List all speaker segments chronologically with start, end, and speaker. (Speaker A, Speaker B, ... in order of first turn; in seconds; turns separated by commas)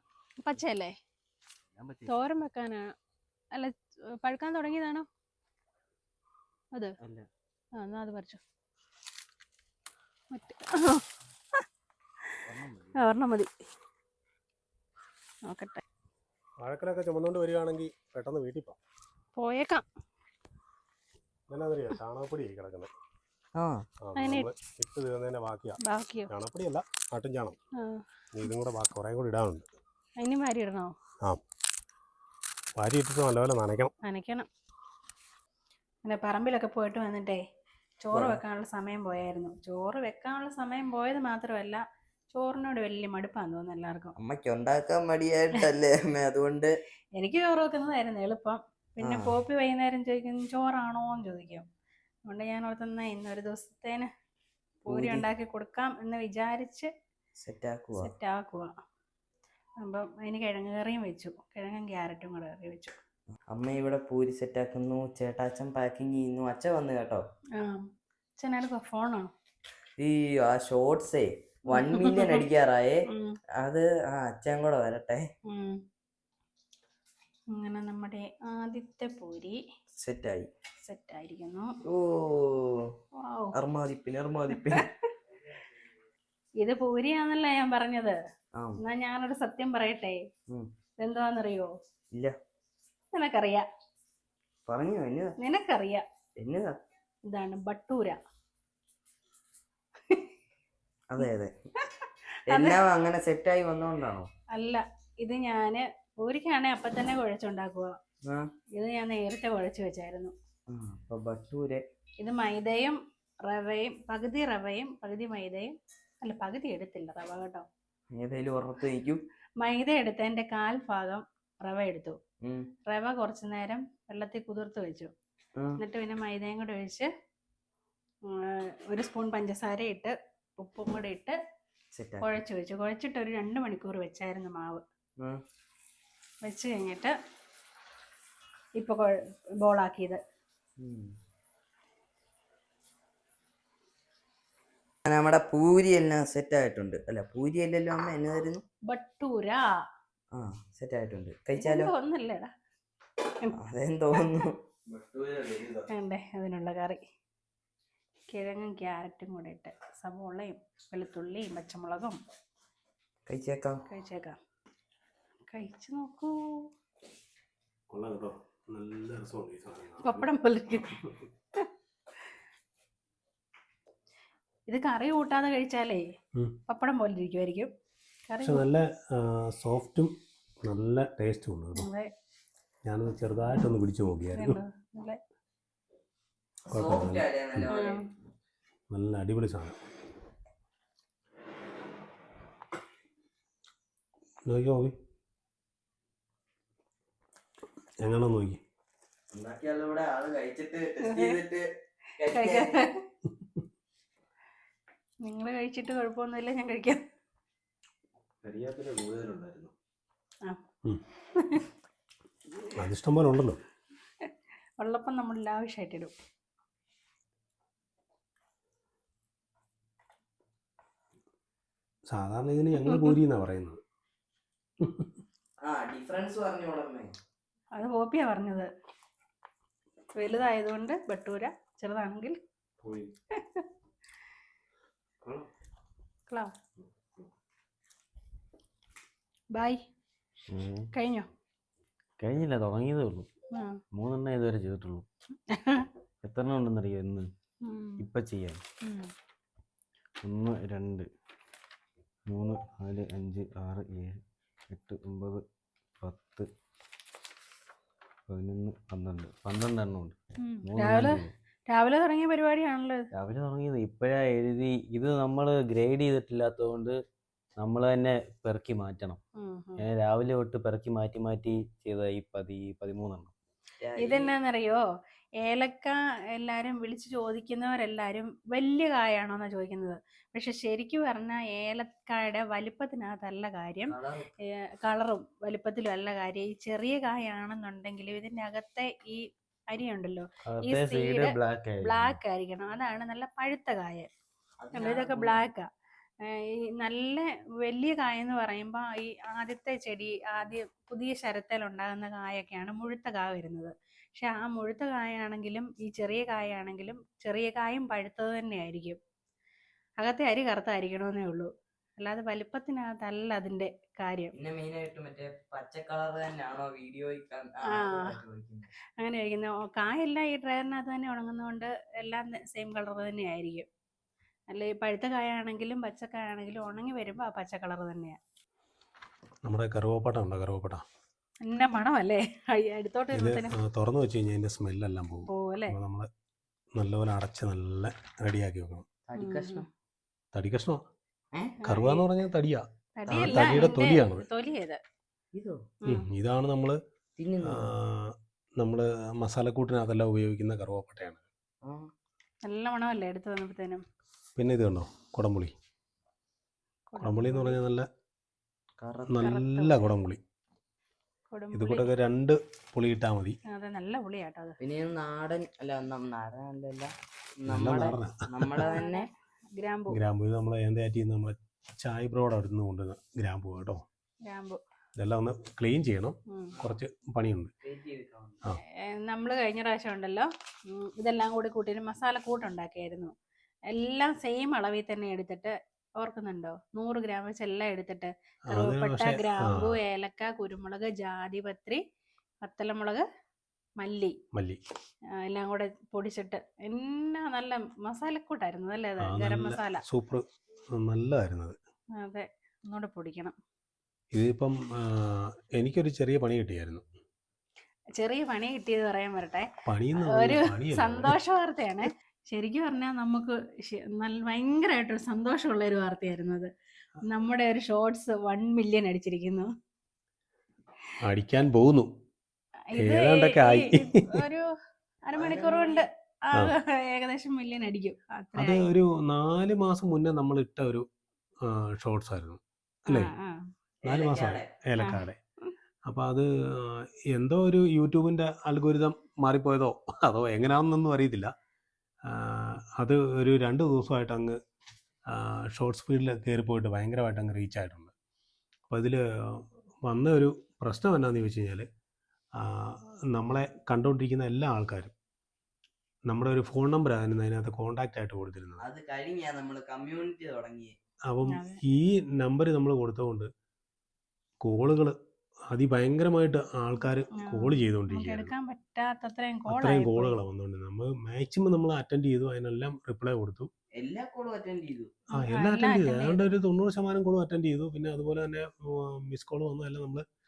Speaker A: 0.4-1.0, Speaker B: 1.8-2.1, Speaker A: 2.1-2.9, Speaker A: 3.5-5.1, Speaker B: 7.0-7.3, Speaker A: 7.8-8.4, Speaker A: 10.3-11.0, Speaker B: 12.4-13.0, Speaker A: 13.0-13.5, Speaker A: 15.5-15.8, Speaker C: 16.6-18.8, Speaker A: 19.4-19.8, Speaker C: 21.5-22.9, Speaker D: 23.6-23.9, Speaker C: 24.0-27.6, Speaker A: 24.2-24.5, Speaker A: 25.8-26.3, Speaker A: 27.8-28.0, Speaker C: 28.3-29.7, Speaker A: 30.2-30.9, Speaker C: 32.8-33.9, Speaker A: 34.0-34.5, Speaker A: 36.0-37.4, Speaker A: 38.0-44.1, Speaker D: 38.1-38.4, Speaker D: 44.2-46.7, Speaker A: 47.2-51.7, Speaker D: 49.0-49.4, Speaker A: 52.3-54.1, Speaker A: 54.9-56.9, Speaker D: 54.9-55.2, Speaker D: 57.4-58.1, Speaker A: 58.0-58.8, Speaker A: 59.8-63.0, Speaker D: 63.5-67.2, Speaker A: 67.6-69.3, Speaker D: 70.0-73.1, Speaker A: 71.7-72.4, Speaker A: 73.1-73.4, Speaker D: 73.6-75.3, Speaker A: 75.5-75.8, Speaker A: 77.5-79.6, Speaker D: 80.0-80.5, Speaker A: 80.8-81.8, Speaker D: 81.8-82.9, Speaker A: 83.2-83.5, Speaker D: 83.5-84.9, Speaker A: 84.5-84.8, Speaker A: 86.6-88.2, Speaker D: 88.5-88.8, Speaker A: 88.8-90.2, Speaker A: 91.0-91.7, Speaker A: 93.1-93.7, Speaker D: 94.7-95.4, Speaker A: 95.4-96.0, Speaker D: 96.4-96.8, Speaker A: 97.3-98.2, Speaker D: 101.1-101.5, Speaker A: 101.8-102.8, Speaker D: 102.5-104.3, Speaker A: 104.5-108.0, Speaker A: 108.8-110.3, Speaker D: 110.7-111.8, Speaker A: 112.2-117.7, Speaker D: 118.1-119.2, Speaker A: 119.6-122.2, Speaker D: 122.4-122.7, Speaker A: 122.9-125.1, Speaker A: 125.8-127.1, Speaker A: 128.3-131.4, Speaker D: 132.0-132.4, Speaker A: 132.2-134.8, Speaker A: 136.4-137.2, Speaker A: 138.8-140.2, Speaker D: 140.8-141.2, Speaker D: 145.1-148.6, Speaker A: 148.9-149.8, Speaker D: 150.3-151.9, Speaker A: 151.6-152.5, Speaker D: 153.5-154.6, Speaker B: 154.9-155.9, Speaker A: 155.9-157.0, Speaker A: 158.3-162.2, Speaker D: 163.3-163.8, Speaker A: 163.9-164.4, Speaker A: 165.5-166.7, Speaker C: 167.9-170.3, Speaker A: 170.0-171.0, Speaker A: 174.7-176.1, Speaker A: 176.7-177.7, Speaker A: 178.3-178.7, Speaker C: 178.4-180.1, Speaker C: 180.6-181.9, Speaker A: 181.8-182.1, Speaker C: 182.8-184.6, Speaker A: 184.3-185.2, Speaker C: 186.7-187.7, Speaker D: 186.7-188.0, Speaker A: 187.7-188.1, Speaker C: 188.9-189.8, Speaker C: 194.5-194.9, Speaker C: 198.0-198.6, Speaker D: 199.3-201.7, Speaker A: 201.0-201.4, Speaker D: 202.2-202.9, Speaker A: 202.2-203.0, Speaker A: 205.2-207.0, Speaker B: 208.4-209.7, Speaker A: 211.3-211.7, Speaker C: 212.7-213.6, Speaker A: 214.2-216.1, Speaker C: 222.1-223.8, Speaker C: 224.8-225.1, Speaker D: 225.6-227.1, Speaker A: 227.8-228.7, Speaker A: 230.2-232.4, Speaker B: 232.8-233.1, Speaker A: 233.3-233.7, Speaker A: 236.3-236.5, Speaker A: 239.6-239.8, Speaker B: 240.5-240.9, Speaker A: 240.9-241.3, Speaker B: 242.2-243.3, Speaker A: 243.5-243.8, Speaker B: 243.9-245.1, Speaker A: 245.5-245.9, Speaker B: 246.2-247.3, Speaker A: 247.6-248.0, Speaker B: 248.0-248.6, Speaker A: 248.8-249.1, Speaker B: 250.2-251.1, Speaker B: 252.3-254.2, Speaker B: 254.7-255.4, Speaker B: 256.0-256.5, Speaker B: 258.3-261.3, Speaker A: 260.4-263.1, Speaker B: 263.1-267.0, Speaker B: 267.6-269.2, Speaker A: 269.4-269.8, Speaker B: 269.8-273.3, Speaker D: 273.8-274.4, Speaker A: 274.0-274.9, Speaker A: 275.4-294.1, Speaker D: 283.9-284.3, Speaker B: 290.5-292.2, Speaker D: 294.6-295.5, Speaker A: 294.7-295.7, Speaker A: 296.2-309.0, Speaker A: 310.0-314.3, Speaker D: 314.4-318.7, Speaker A: 317.7-318.2, Speaker A: 319.0-323.7, Speaker A: 324.5-328.2, Speaker C: 329.4-330.8, Speaker A: 331.5-333.6, Speaker C: 333.1-336.1, Speaker A: 335.3-335.8, Speaker C: 336.8-338.9, Speaker D: 339.1-339.7, Speaker A: 339.2-339.6, Speaker C: 340.3-340.8, Speaker D: 341.3-341.6, Speaker A: 341.6-342.0, Speaker C: 341.6-344.3, Speaker A: 343.0-344.8, Speaker D: 343.1-343.8, Speaker D: 345.3-345.7, Speaker C: 345.9-346.8, Speaker D: 347.2-347.6, Speaker C: 347.4-351.2, Speaker D: 351.6-351.9, Speaker A: 352.4-353.8, Speaker C: 354.4-355.5, Speaker A: 356.9-357.6, Speaker C: 357.0-357.9, Speaker D: 358.8-359.2, Speaker C: 359.1-360.2, Speaker A: 359.2-359.9, Speaker A: 361.3-361.9, Speaker C: 361.5-363.4, Speaker A: 363.5-364.6, Speaker D: 364.6-369.1, Speaker C: 367.5-368.7, Speaker A: 368.6-370.0, Speaker C: 369.9-373.8, Speaker A: 374.3-374.6, Speaker C: 375.0-377.5, Speaker D: 377.6-378.4, Speaker A: 378.7-383.1, Speaker A: 383.7-391.8, Speaker C: 388.5-389.8, Speaker A: 392.4-393.1, Speaker A: 393.8-394.2, Speaker C: 394.3-394.6, Speaker A: 395.1-399.8, Speaker C: 399.0-401.6, Speaker A: 402.0-403.4, Speaker C: 404.1-406.9, Speaker A: 408.0-409.5, Speaker C: 409.6-411.2, Speaker A: 410.0-416.5, Speaker A: 417.0-419.5, Speaker C: 421.0-421.9, Speaker A: 422.7-424.5, Speaker C: 422.8-424.3, Speaker A: 425.1-428.6, Speaker D: 425.1-425.9, Speaker C: 428.4-430.9, Speaker C: 431.4-433.1, Speaker A: 432.9-433.5, Speaker D: 433.8-434.5, Speaker C: 433.9-435.2, Speaker A: 434.8-435.0, Speaker C: 435.9-441.3, Speaker C: 442.1-444.4, Speaker C: 445.1-447.9, Speaker C: 448.7-451.7, Speaker C: 452.4-454.9, Speaker C: 456.1-458.6, Speaker D: 458.6-460.8, Speaker C: 461.1-463.3, Speaker A: 461.3-461.6, Speaker C: 464.4-465.0, Speaker C: 465.5-468.3, Speaker A: 467.2-470.2, Speaker C: 469.5-473.5, Speaker D: 473.8-474.9, Speaker C: 475.1-480.1, Speaker A: 475.1-476.3